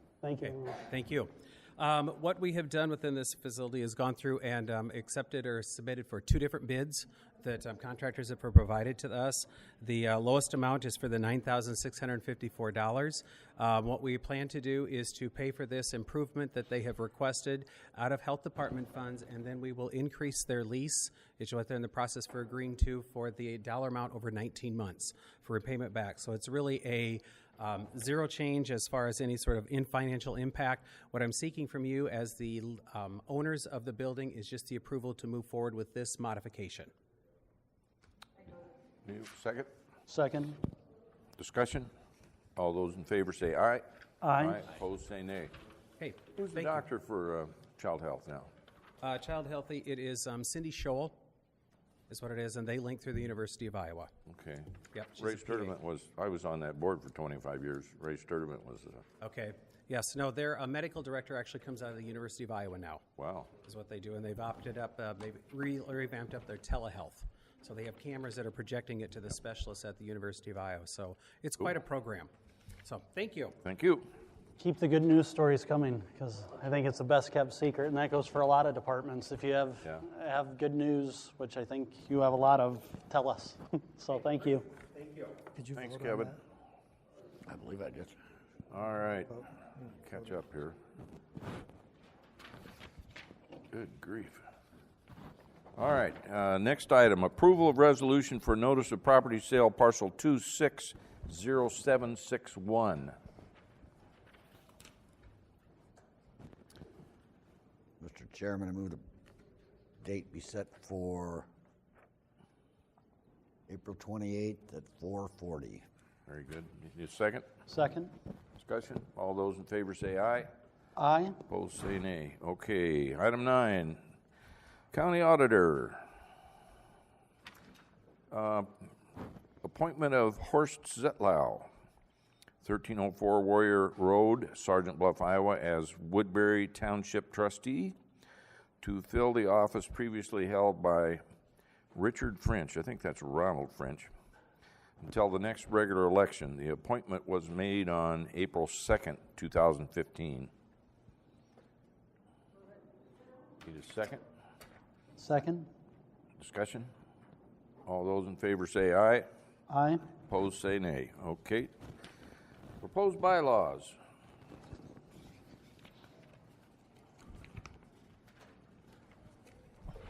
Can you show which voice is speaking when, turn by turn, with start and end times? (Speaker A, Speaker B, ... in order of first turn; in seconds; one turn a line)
Speaker A: 0.2-0.8
Speaker B: 0.4-36.9
Speaker C: 39.0-39.7
Speaker A: 40.1-40.6
Speaker C: 41.4-41.9
Speaker C: 42.6-45.5
Speaker A: 44.2-44.6
Speaker B: 46.0-46.8
Speaker C: 46.4-48.5
Speaker B: 49.0-51.2
Speaker B: 52.1-54.1
Speaker C: 54.3-54.7
Speaker B: 54.9-55.7
Speaker C: 55.2-59.0
Speaker B: 59.2-63.0
Speaker C: 63.2-63.5
Speaker B: 63.6-72.3
Speaker B: 72.8-73.5
Speaker C: 73.6-74.1
Speaker A: 74.6-84.7
Speaker C: 85.6-86.4
Speaker D: 87.5-88.2
Speaker C: 88.7-90.8
Speaker C: 93.7-94.4
Speaker C: 95.8-103.2
Speaker D: 108.0-109.0
Speaker D: 110.0-111.5
Speaker D: 113.7-115.8
Speaker C: 116.3-117.5
Speaker A: 117.7-118.1
Speaker C: 118.6-120.5
Speaker A: 121.0-121.4
Speaker C: 121.5-124.0
Speaker C: 124.9-126.0
Speaker C: 128.3-128.9
Speaker C: 129.6-131.7
Speaker C: 132.6-138.0
Speaker C: 138.8-141.2
Speaker C: 141.9-144.1
Speaker C: 145.0-150.5
Speaker C: 153.6-154.2
Speaker A: 155.2-155.7
Speaker C: 156.4-156.9
Speaker C: 157.9-159.3
Speaker A: 159.7-160.0
Speaker C: 160.3-161.7
Speaker C: 162.8-164.0